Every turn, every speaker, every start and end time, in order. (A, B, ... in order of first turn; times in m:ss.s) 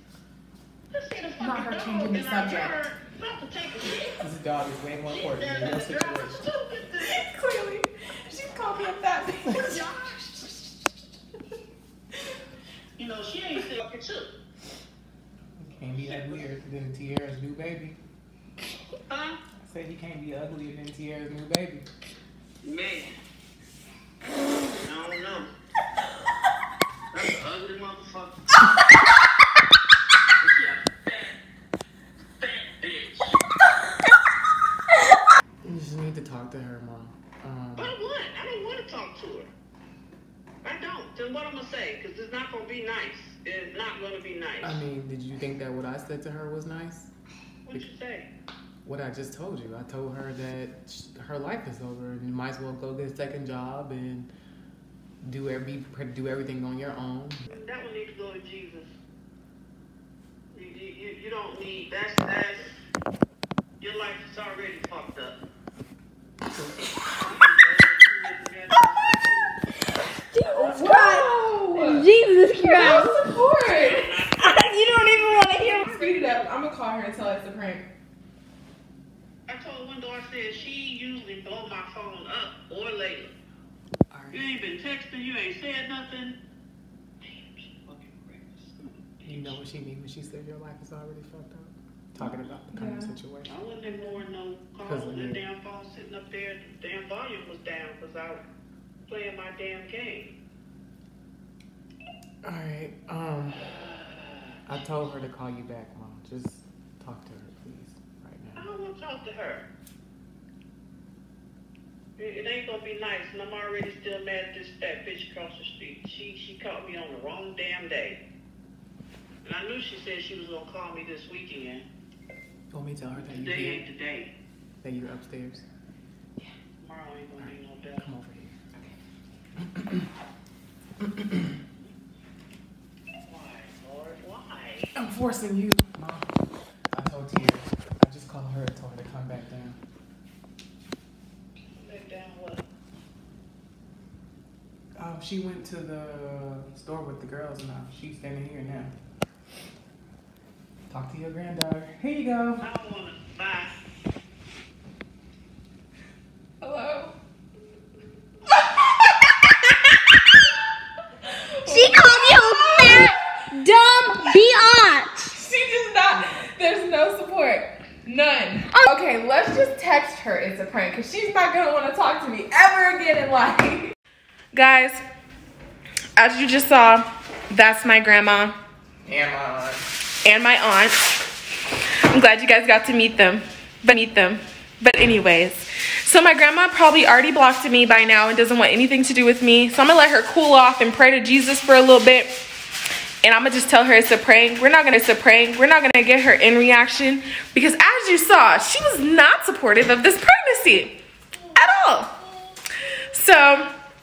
0:00.9-0:04.2 A
0:01.4-0:02.9 B
0:04.2-0:06.4 C
0:05.1-0:07.3 A
0:07.0-0:09.8 B
0:09.6-0:10.5 A
0:13.0-0:14.3 A
0:15.6-0:18.0 C
0:16.0-0:16.4 A
0:19.1-0:19.4 A
0:19.6-0:21.9 C
0:22.6-0:23.2 A
0:24.8-0:25.5 A
0:27.1-0:28.4 A
0:30.4-0:31.4 A
0:32.4-0:33.4 A
0:35.6-0:37.9 C
0:37.8-0:39.5 A
0:40.6-0:44.8 A
0:44.6-0:47.1 C
0:47.7-0:48.3 A
0:48.8-0:54.3 C
0:55.2-0:57.5 C
0:57.5-0:59.0 A
1:00.5-1:02.8 A
1:03.8-1:05.4 A
1:07.1-1:09.6 A
1:10.3-1:13.2 D
1:10.5-1:14.1 B
1:13.7-1:15.7 A
1:14.3-1:16.1 D
1:15.5-1:17.8 B
1:19.5-1:23.3 A
1:24.1-1:24.5 C
1:24.3-1:26.4 A
1:27.2-1:29.6 A
1:29.2-1:33.7 C
1:32.7-1:33.1 B
1:33.5-1:38.4 A
1:33.9-1:34.2 B
1:34.8-1:35.4 C
1:39.1-1:40.4 A
1:42.4-1:43.8 C
1:43.7-1:44.6 A
1:44.7-1:48.7 C
1:48.6-1:49.7 A
1:52.2-1:58.2 A
1:59.4-2:01.8 A
2:02.7-2:03.8 C
2:03.2-2:04.3 A
2:04.8-2:05.6 C
2:06.8-2:08.1 A
2:07.4-2:09.0 C
2:09.6-2:10.1 C
2:11.0-2:11.5 C
2:13.3-2:14.9 A
2:15.0-2:16.3 C
2:16.9-2:19.8 C
2:21.8-2:22.7 A
2:25.0-2:28.9 C
2:30.9-2:32.6 C
2:32.6-2:33.7 A
2:36.6-2:37.2 B
2:41.2-2:43.2 B
2:41.7-2:45.3 D
2:43.9-2:44.4 B
2:45.3-2:54.0 B
2:54.5-2:55.0 B
2:56.2-2:58.6 B
2:59.0-2:59.8 C
3:00.2-3:01.0 B
3:02.1-3:12.4 B
3:13.2-3:21.0 B
3:21.6-3:22.2 B
3:23.1-3:23.7 B